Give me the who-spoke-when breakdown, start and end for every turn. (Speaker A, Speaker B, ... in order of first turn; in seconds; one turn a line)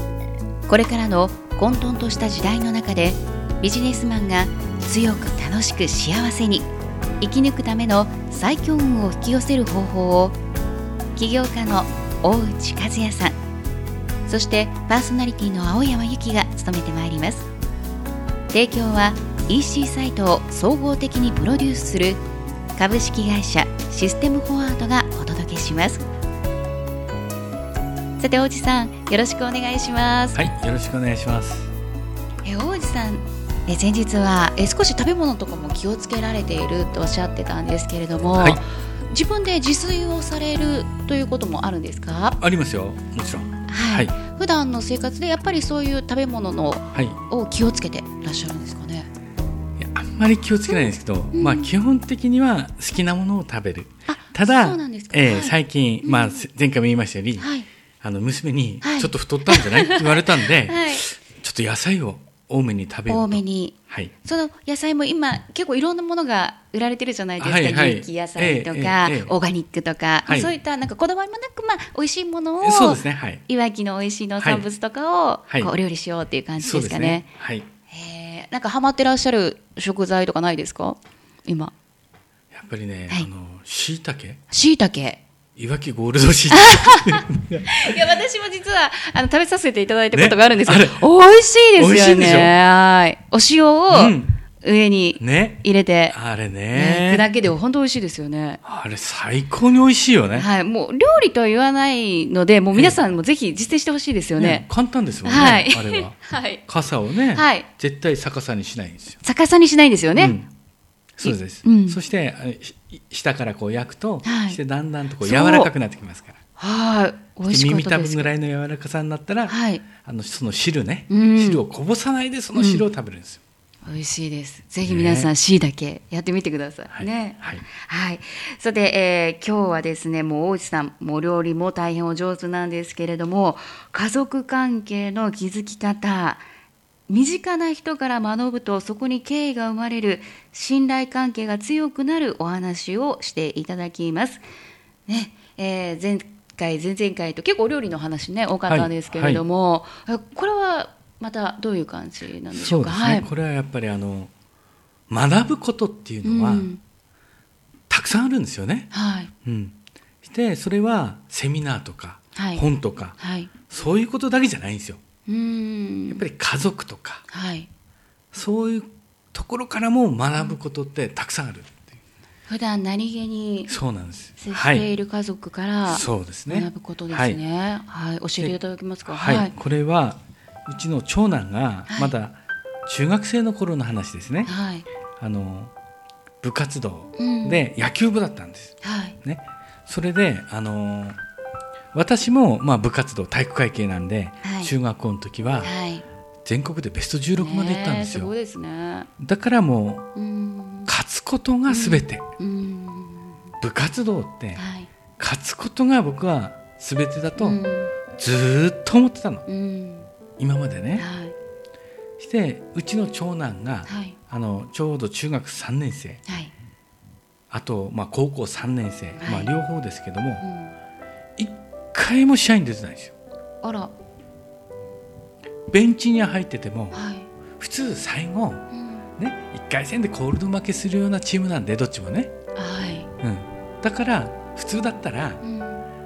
Speaker A: 0.7-6.7
Speaker A: 7.2-10.4
Speaker A: 11.2-13.4
Speaker A: 14.3-17.5
Speaker A: 18.5-22.2
Speaker A: 22.8-26.0
Speaker A: 28.2-30.4
Speaker B: 30.3-31.7
Speaker A: 32.5-42.4
Speaker B: 42.4-44.1
Speaker A: 43.7-49.1
Speaker B: 46.9-47.2
Speaker B: 49.8-57.5
Speaker A: 50.7-51.7
Speaker A: 54.1-56.4
Speaker A: 57.4-57.7
Speaker B: 58.0-64.1
Speaker A: 58.8-61.1
Speaker A: 63.1-77.3
Speaker B: 67.4-69.3
Speaker B: 70.3-70.5
Speaker B: 72.6-73.4
Speaker B: 74.4-74.7
Speaker B: 76.6-77.7
Speaker A: 77.9-81.7
Speaker B: 82.5-84.4
Speaker A: 84.5-85.2
Speaker B: 85.6-88.0
Speaker A: 86.5-96.2
Speaker B: 90.1-91.0
Speaker B: 91.8-92.5
Speaker B: 93.9-94.4
Speaker B: 95.2-97.3
Speaker A: 96.7-98.6
Speaker B: 98.6-100.5
Speaker A: 100.3-104.7
Speaker B: 104.4-109.2
Speaker A: 105.2-106.6
Speaker A: 107.3-107.7
Speaker A: 109.2-110.4
Speaker B: 110.2-110.5
Speaker B: 111.2-116.4
Speaker A: 111.2-112.0
Speaker A: 114.2-114.6
Speaker A: 115.2-115.7
Speaker A: 116.6-118.3
Speaker B: 117.5-123.4
Speaker A: 119.5-119.8
Speaker A: 121.1-121.6
Speaker A: 122.5-122.8
Speaker A: 123.8-136.4
Speaker B: 124.9-125.3
Speaker B: 126.9-127.6
Speaker A: 137.1-144.4
Speaker A: 145.1-153.3
Speaker B: 148.7-149.4
Speaker B: 152.5-154.3
Speaker B: 155.1-156.7
Speaker A: 156.2-156.8
Speaker B: 157.9-158.9
Speaker A: 158.9-159.3
Speaker B: 159.4-163.2
Speaker A: 162.3-162.7
Speaker A: 163.2-163.5
Speaker B: 163.7-165.0
Speaker A: 165.3-166.2
Speaker B: 166.1-167.2
Speaker A: 167.3-167.7
Speaker B: 168.3-171.9
Speaker A: 172.5-173.7
Speaker B: 173.7-174.9
Speaker A: 174.4-179.5
Speaker B: 175.9-177.4
Speaker B: 178.4-184.5
Speaker A: 181.9-182.1
Speaker A: 184.4-184.9
Speaker B: 185.2-185.7
Speaker B: 186.4-191.2
Speaker A: 187.2-187.6
Speaker A: 188.8-189.2
Speaker B: 191.9-195.7
Speaker A: 194.4-194.7
Speaker A: 195.6-196.0
Speaker B: 196.4-198.3
Speaker A: 197.4-199.1
Speaker B: 199.2-200.1
Speaker A: 200.2-200.9
Speaker B: 200.9-202.2
Speaker A: 201.7-203.4
Speaker B: 203.6-204.6
Speaker A: 204.6-204.9
Speaker B: 205.2-207.6
Speaker A: 207.4-207.9
Speaker B: 208.2-209.5
Speaker A: 209.5-210.1
Speaker B: 210.4-211.1
Speaker A: 211.0-211.3
Speaker B: 212.2-216.2
Speaker A: 213.9-214.2
Speaker A: 216.3-216.5
Speaker B: 217.5-220.4
Speaker A: 219.2-219.5
Speaker A: 220.4-220.8
Speaker B: 221.4-223.1
Speaker A: 223.6-223.9
Speaker B: 225.7-226.9
Speaker A: 226.9-227.3
Speaker B: 227.6-228.7
Speaker A: 228.7-229.1
Speaker B: 229.2-232.3
Speaker A: 232.6-233.1
Speaker B: 233.2-235.4
Speaker A: 235.4-235.9